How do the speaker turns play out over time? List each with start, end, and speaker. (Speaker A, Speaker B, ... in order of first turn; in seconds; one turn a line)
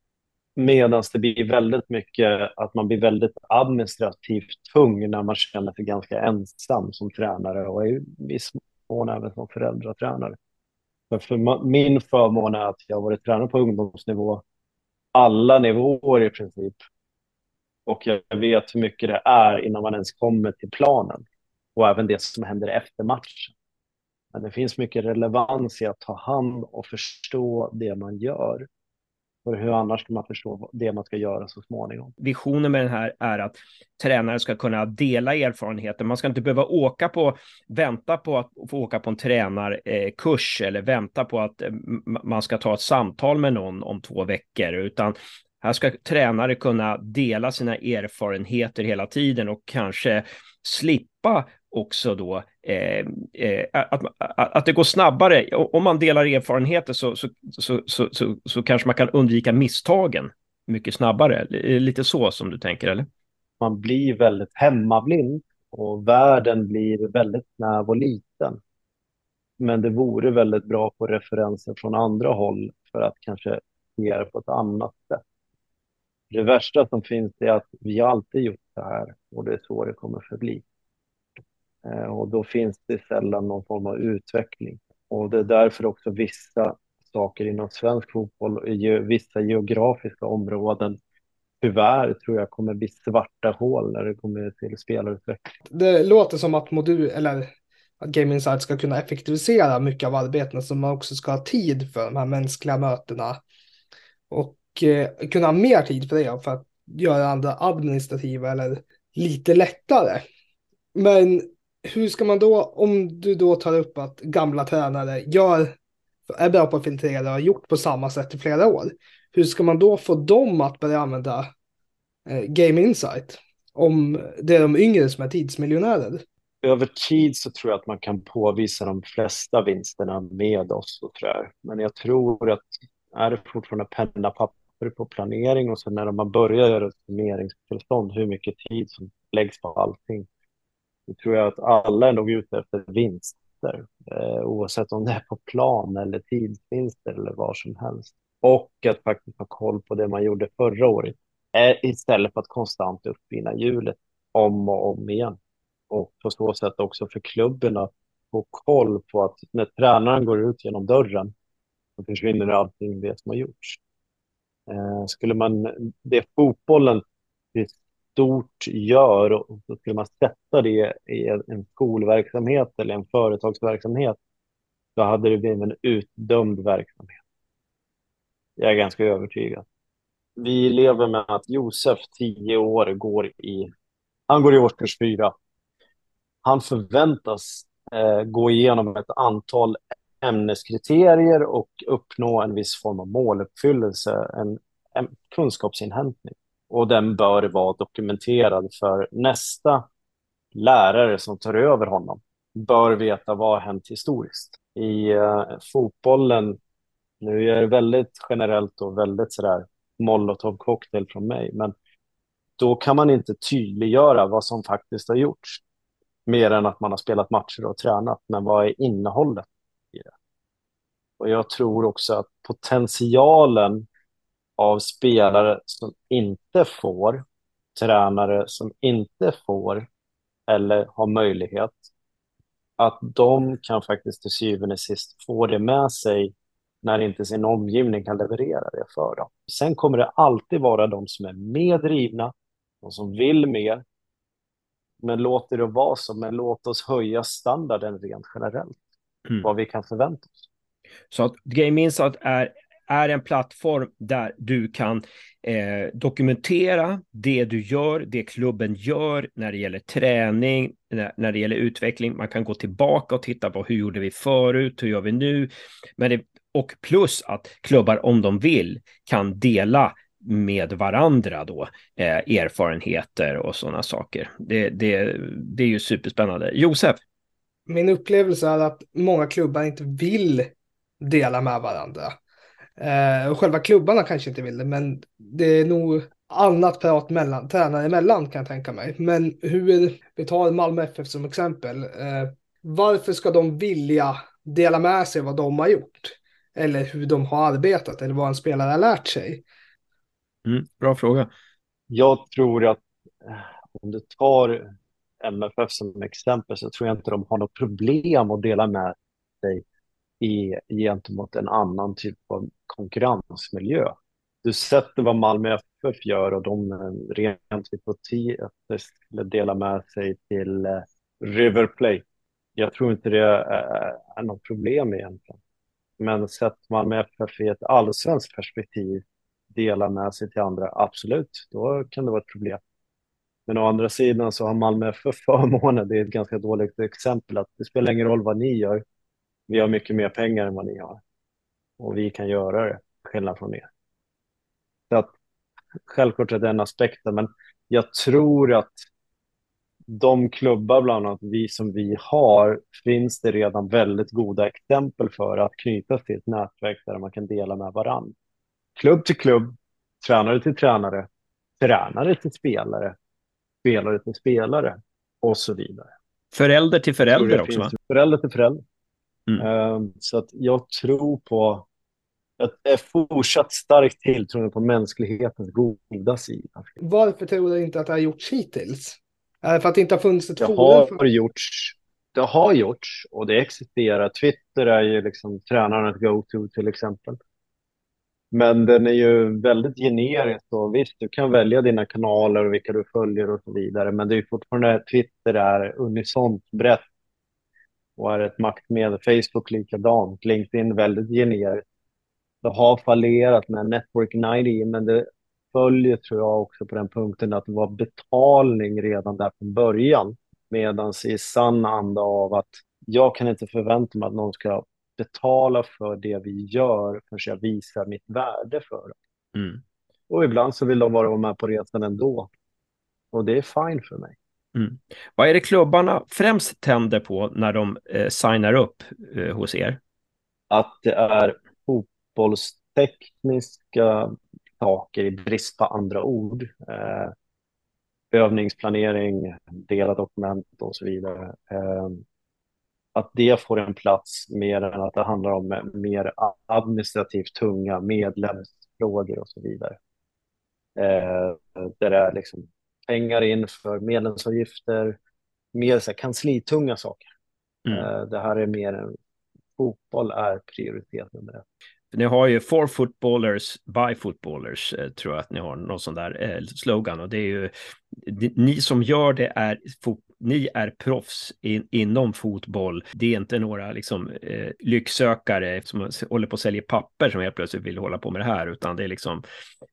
Speaker A: 0.6-10.4
Speaker A: 11.1-14.4
Speaker A: 15.1-16.8
Speaker A: 17.9-21.2
Speaker A: 21.8-23.5
Speaker A: 24.3-28.7
Speaker A: 29.4-32.1
Speaker B: 32.2-63.1
Speaker A: 63.6-68.6
Speaker A: 69.6-75.2
Speaker A: 76.3-80.6
Speaker A: 81.8-91.0
Speaker A: 91.6-95.5
Speaker C: 95.7-97.5
Speaker C: 98.0-103.4
Speaker C: 104.3-110.2
Speaker C: 111.0-115.7
Speaker C: 116.3-121.5
Speaker C: 122.3-126.2
Speaker A: 126.6-140.3
Speaker A: 141.1-155.4
Speaker A: 155.9-161.3
Speaker A: 162.0-163.8
Speaker A: 164.7-167.0
Speaker A: 167.5-174.2
Speaker A: 175.0-177.2
Speaker A: 178.6-179.6
Speaker A: 180.4-183.7
Speaker A: 184.3-185.3
Speaker A: 186.4-199.8
Speaker A: 200.5-206.6
Speaker A: 207.2-211.7
Speaker A: 212.6-215.6
Speaker A: 216.3-220.1
Speaker A: 221.2-223.8
Speaker A: 224.6-227.2
Speaker A: 227.8-229.9
Speaker A: 230.5-231.8
Speaker A: 232.8-243.8
Speaker A: 245.0-248.8
Speaker A: 249.4-250.5
Speaker B: 251.1-277.0
Speaker C: 277.7-282.2
Speaker C: 282.8-299.4
Speaker B: 300.5-301.3
Speaker A: 301.9-304.7
Speaker A: 305.2-309.6
Speaker A: 310.2-322.0
Speaker A: 322.6-325.4
Speaker A: 326.0-332.6
Speaker A: 333.5-338.8
Speaker A: 339.5-341.0
Speaker A: 341.8-343.7
Speaker A: 345.9-348.9
Speaker A: 349.9-358.1
Speaker A: 358.8-361.1
Speaker A: 361.6-362.9
Speaker A: 363.6-365.9
Speaker B: 366.3-367.7
Speaker A: 367.1-368.6
Speaker A: 369.4-371.7
Speaker A: 372.4-376.7
Speaker C: 376.8-381.0
Speaker A: 380.4-387.2
Speaker A: 388.3-396.8
Speaker A: 398.0-401.6
Speaker A: 402.4-418.9
Speaker B: 419.4-419.6
Speaker A: 420.1-422.3
Speaker A: 423.1-424.2
Speaker B: 424.6-429.8
Speaker A: 430.5-437.1
Speaker A: 438.1-442.0
Speaker A: 442.9-449.8
Speaker A: 450.8-455.0
Speaker A: 455.5-457.1
Speaker A: 457.7-458.9
Speaker A: 459.6-461.4
Speaker B: 461.9-479.2